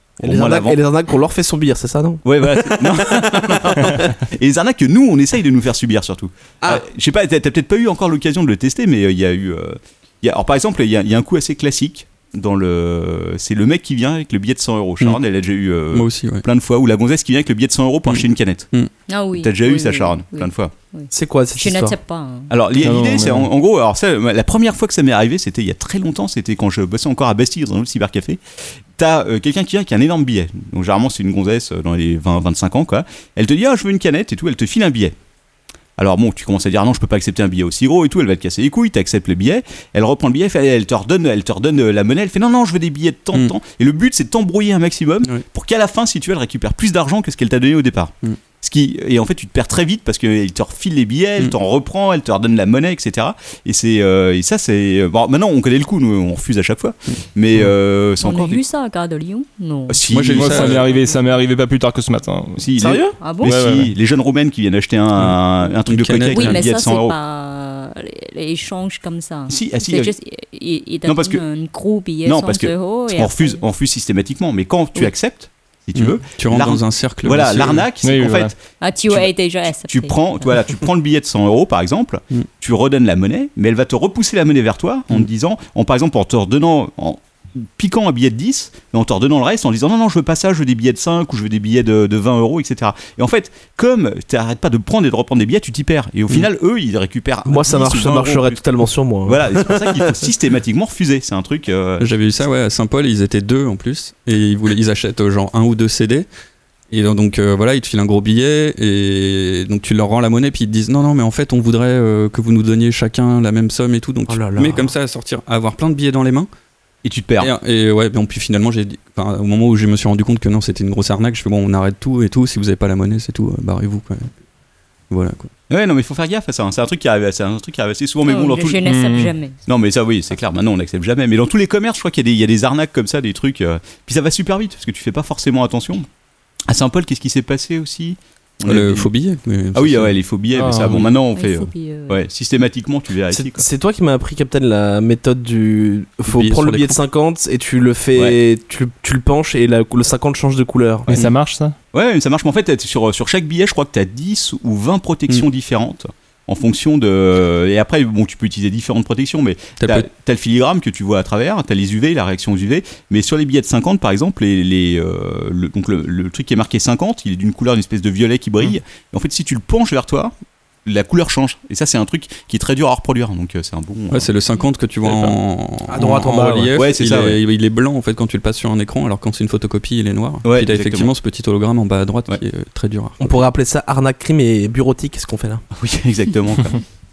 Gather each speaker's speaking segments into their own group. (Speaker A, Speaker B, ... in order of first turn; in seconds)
Speaker A: 0.2-0.8, 2.2-18.7, 19.3-20.7, 22.5-28.4, 29.0-35.2, 36.0-58.6, 59.9-60.9, 62.6-67.2, 69.5-70.2, 71.1-71.4, 72.2-79.3, 79.8-98.6, 99.3-102.1, 117.0-117.5, 125.7-128.9, 129.7-136.1, 136.7-139.1, 139.7-143.7, 151.9-170.3, 170.8-174.3, 175.1-175.3, 176.0-177.4, 180.4-181.1, 185.7-186.8
Speaker B: 0.2-4.1, 21.1-22.0, 62.8-63.2, 97.5-100.2, 114.3-114.9, 143.3-151.2, 175.9-176.8, 183.2-185.6
Speaker C: 15.9-16.4, 18.1-18.9, 60.1-60.9, 65.2-66.6, 76.0-77.9, 102.0-106.3, 106.9-116.5, 117.4-124.3, 125.1-125.5, 138.7-140.2, 146.3-147.0, 159.8-160.1, 174.1-183.5
Speaker D: 19.1-22.5, 58.2-61.2, 63.2-63.7, 66.3-73.6, 78.8-80.5, 128.2-129.6, 141.3-142.2
Speaker E: 22.8-23.5, 60.3-62.7, 63.4-63.9, 78.0-78.5, 128.9-129.3, 140.5-141.1, 151.1-151.8